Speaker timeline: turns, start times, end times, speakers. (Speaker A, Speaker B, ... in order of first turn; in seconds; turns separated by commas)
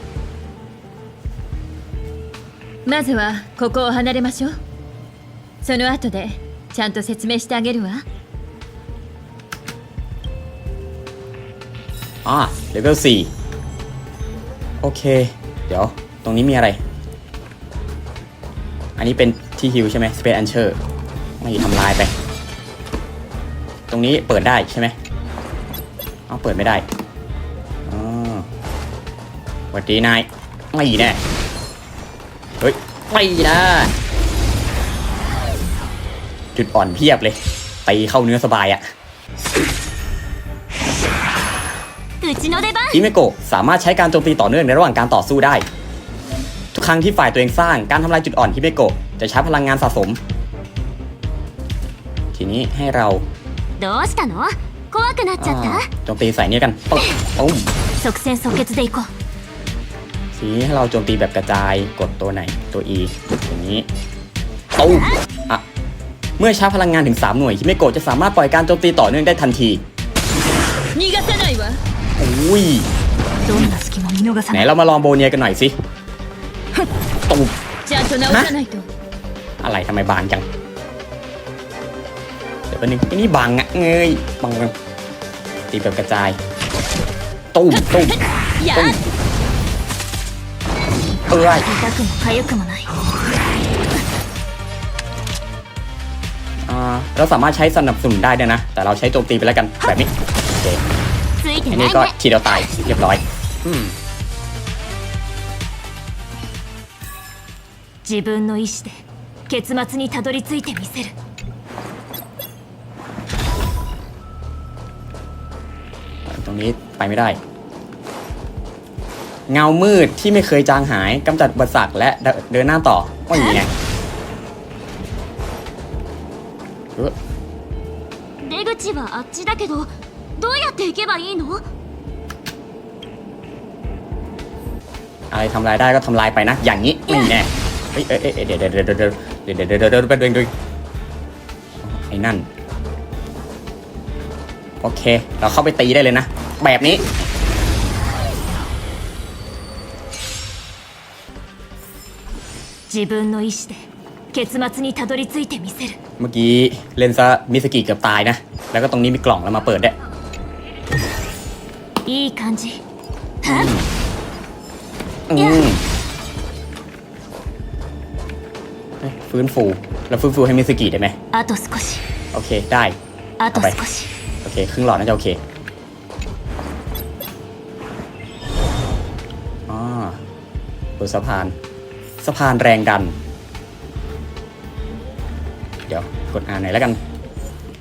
Speaker A: 2.8-4.5, Speaker A: 5.6-8.0, Speaker B: 12.2-13.3, Speaker B: 14.8-16.8, Speaker B: 19.0-20.8, Speaker B: 21.4-22.1, Speaker B: 23.9-24.9, Speaker B: 26.3-26.8, Speaker B: 27.9-28.5, Speaker B: 29.7-31.2, Speaker B: 32.6-33.9, Speaker B: 36.5-38.8, Speaker C: 42.2-43.0, Speaker B: 42.9-45.6, Speaker B: 46.7-50.2, Speaker B: 52.3-53.3, Speaker C: 53.8-55.9, Speaker B: 55.4-57.7, Speaker C: 58.0-59.1, Speaker B: 60.4-63.9, Speaker B: 64.8-65.6, Speaker B: 66.4-69.8, Speaker A: 70.9-71.8, Speaker B: 72.2-72.9, Speaker C: 73.4-74.7, Speaker B: 74.5-75.7, Speaker B: 77.3-77.5, Speaker A: 77.8-78.9, Speaker B: 78.2-78.5, Speaker B: 79.6-80.4, Speaker B: 82.7-84.7, Speaker B: 85.7-86.4, Speaker B: 87.5-88.2, Speaker A: 87.7-89.0, Speaker B: 88.7-89.0, Speaker B: 91.3-91.7, Speaker C: 91.7-92.9, Speaker B: 96.7-100.8, Speaker C: 101.4-102.1, Speaker B: 101.7-104.0, Speaker C: 108.0-111.1, Speaker B: 116.3-117.4, Speaker B: 119.5-123.7, Speaker C: 128.4-131.6, Speaker B: 135.3-140.5, Speaker B: 141.8-142.5, Speaker B: 144.8-147.1, Speaker C: 152.9-155.9, Speaker B: 156.2-159.9, Speaker C: 162.1-162.8, Speaker C: 163.4-163.7, Speaker B: 163.4-163.9, Speaker B: 165.3-165.8, Speaker C: 165.4-165.7, Speaker B: 169.0-171.2, Speaker C: 171.3-172.0, Speaker B: 172.3-172.9, Speaker C: 173.4-174.1, Speaker B: 173.5-173.8, Speaker B: 174.4-175.4, Speaker B: 179.7-180.2, Speaker B: 181.0-181.5, Speaker B: 182.2-183.1, Speaker B: 185.9-187.0